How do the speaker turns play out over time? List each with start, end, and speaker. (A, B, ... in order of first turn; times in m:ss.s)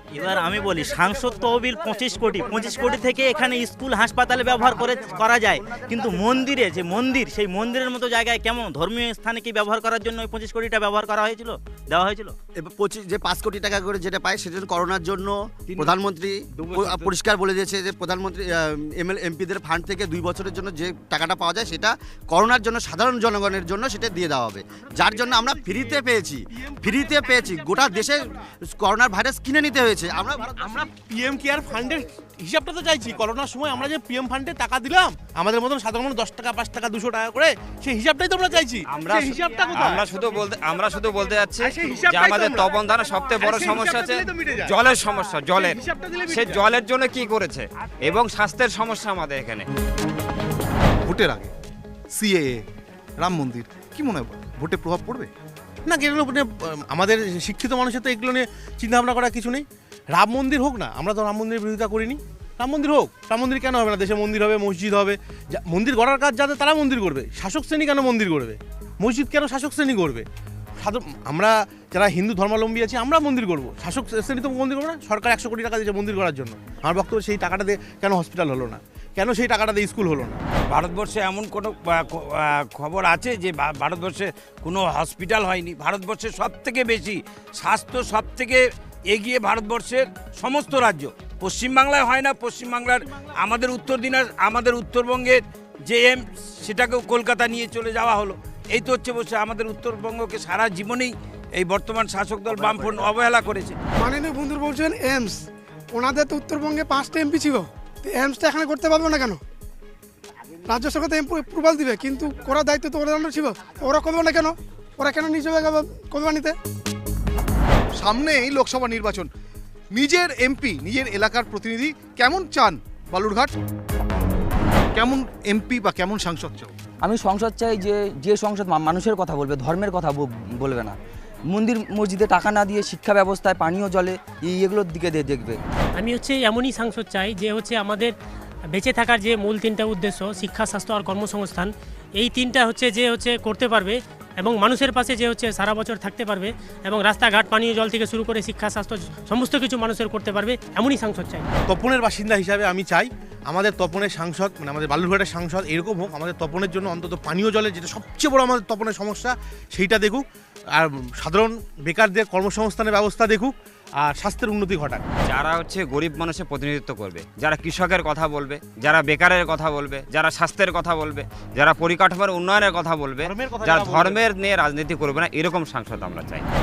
0:00.1-0:12.3 A
0:04.5-0:04.9 B
0:05.6-0:06.6 B
0:12.6-0:30.5 B
0:15.7-0:16.0 C
0:16.5-0:17.2 C
0:30.5-0:40.4 D
0:38.9-0:49.7 E
0:41.2-0:46.7 D
0:51.0-0:51.5 F
0:52.1-0:52.6 F
0:53.2-0:55.3 F
0:55.8-1:10.2 D
1:10.8-1:20.4 D
1:20.7-1:43.8 C
1:44.0-1:49.4 G
1:50.6-1:56.5 G
1:58.0-1:59.3 F
1:59.9-2:03.5 F
2:04.9-2:06.7 F
2:07.0-2:11.0 H
2:11.5-2:15.6 H
2:16.0-2:18.1 I
2:18.7-2:31.5 I
2:31.7-2:45.0 D
2:45.3-2:56.4 E
2:53.2-2:54.2 D